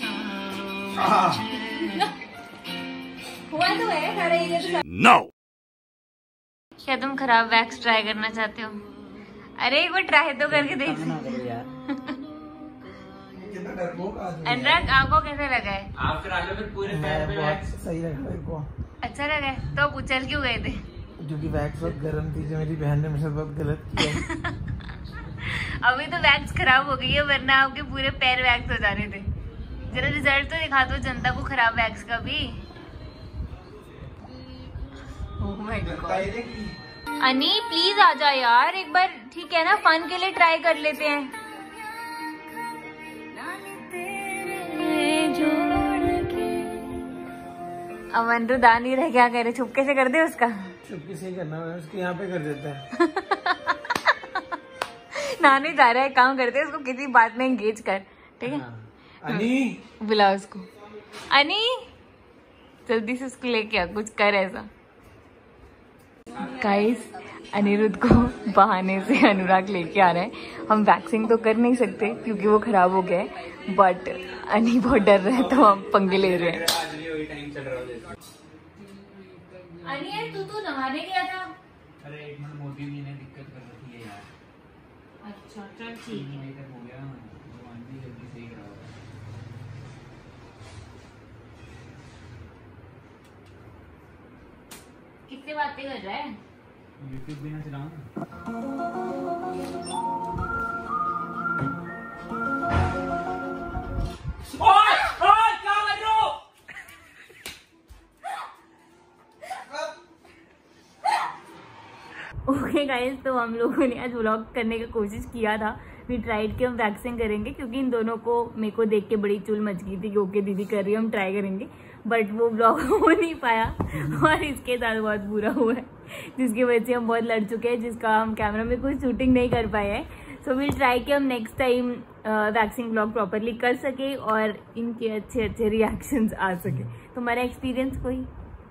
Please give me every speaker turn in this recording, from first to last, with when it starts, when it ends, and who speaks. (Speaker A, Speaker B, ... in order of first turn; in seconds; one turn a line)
Speaker A: 0.9-1.5
Speaker B: 1.7-2.1
Speaker B: 3.5-4.8
Speaker B: 6.8-8.8
Speaker B: 9.6-11.4
Speaker C: 10.5-11.7
Speaker A: 13.3-14.9
Speaker B: 14.4-15.9
Speaker C: 16.0-17.6
Speaker A: 16.8-18.7
Speaker B: 19.0-20.8
Speaker A: 21.2-24.2
Speaker B: 24.1-24.6
Speaker B: 25.4-29.3
Speaker B: 29.9-32.6
Speaker B: 35.4-36.3
Speaker A: 35.8-36.8
Speaker B: 37.2-41.3
Speaker B: 43.3-46.9
Speaker B: 48.1-50.7
Speaker A: 50.8-52.8
Speaker B: 53.0-54.2
Speaker B: 55.1-58.6
Speaker A: 58.5-59.8
Speaker B: 59.3-60.7
Speaker B: 61.3-61.8
Speaker B: 62.9-64.7
Speaker B: 66.3-76.6
Speaker C: 76.1-78.1
Speaker B: 79.8-81.5
Speaker C: 82.0-84.3
Speaker B: 85.2-86.4
Speaker C: 86.1-88.9
Speaker B: 95.3-96.3
Speaker C: 97.0-98.0
Speaker C: 104.6-106.3
Speaker B: 112.5-138.3